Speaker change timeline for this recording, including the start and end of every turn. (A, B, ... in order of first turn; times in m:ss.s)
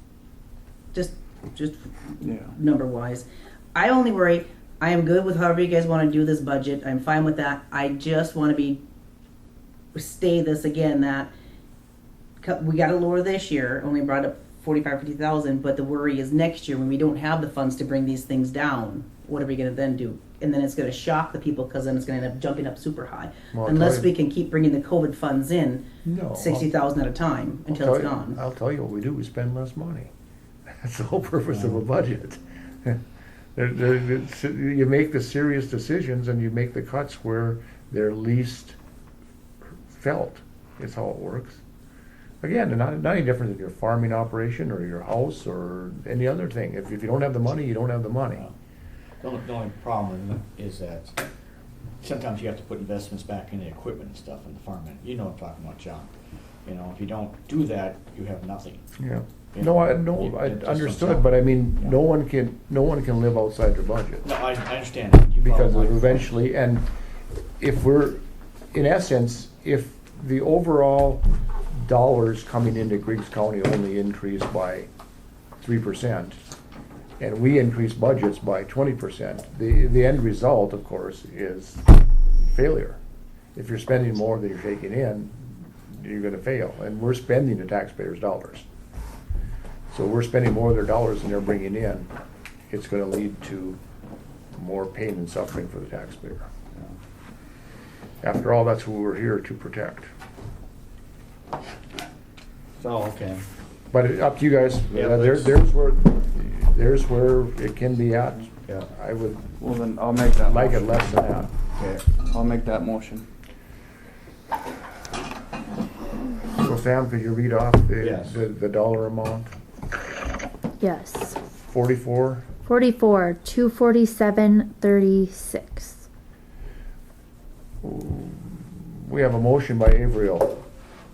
0:00.9-0:08.8 A
0:02.2-0:02.6 B
0:10.0-0:11.3 A
0:12.4-0:28.4 A
0:23.5-0:24.1 C
0:26.0-0:26.7 C
0:27.7-0:30.1 C
0:30.7-0:33.0 C
0:33.6-0:38.8 C
0:39.9-0:41.6 C
0:42.4-0:48.4 C
0:49.2-0:51.2 D
0:52.0-0:56.1 D
0:56.6-0:58.8 D
0:59.0-1:04.3 C
0:59.5-1:01.9 D
1:04.2-1:06.2 D
1:05.4-1:06.9 C
1:07.6-1:08.2 C
1:08.7-1:14.9 C
1:15.6-1:16.4 C
1:17.2-1:21.8 C
1:22.4-1:23.0 C
1:23.6-1:28.7 C
1:29.9-1:32.1 C
1:32.7-1:33.8 C
1:34.6-1:36.5 C
1:38.2-1:40.1 C
1:42.8-1:43.4 D
1:43.9-1:49.5 C
1:44.9-1:45.6 D
1:49.6-1:51.4 B
1:50.4-1:51.5 C
1:51.7-1:52.1 D
1:52.2-1:53.3 B
1:56.5-1:59.5 C
1:58.0-1:58.4 D
2:00.8-2:01.4 E
2:01.7-2:02.5 C
2:02.7-2:06.0 E
2:07.8-2:10.6 C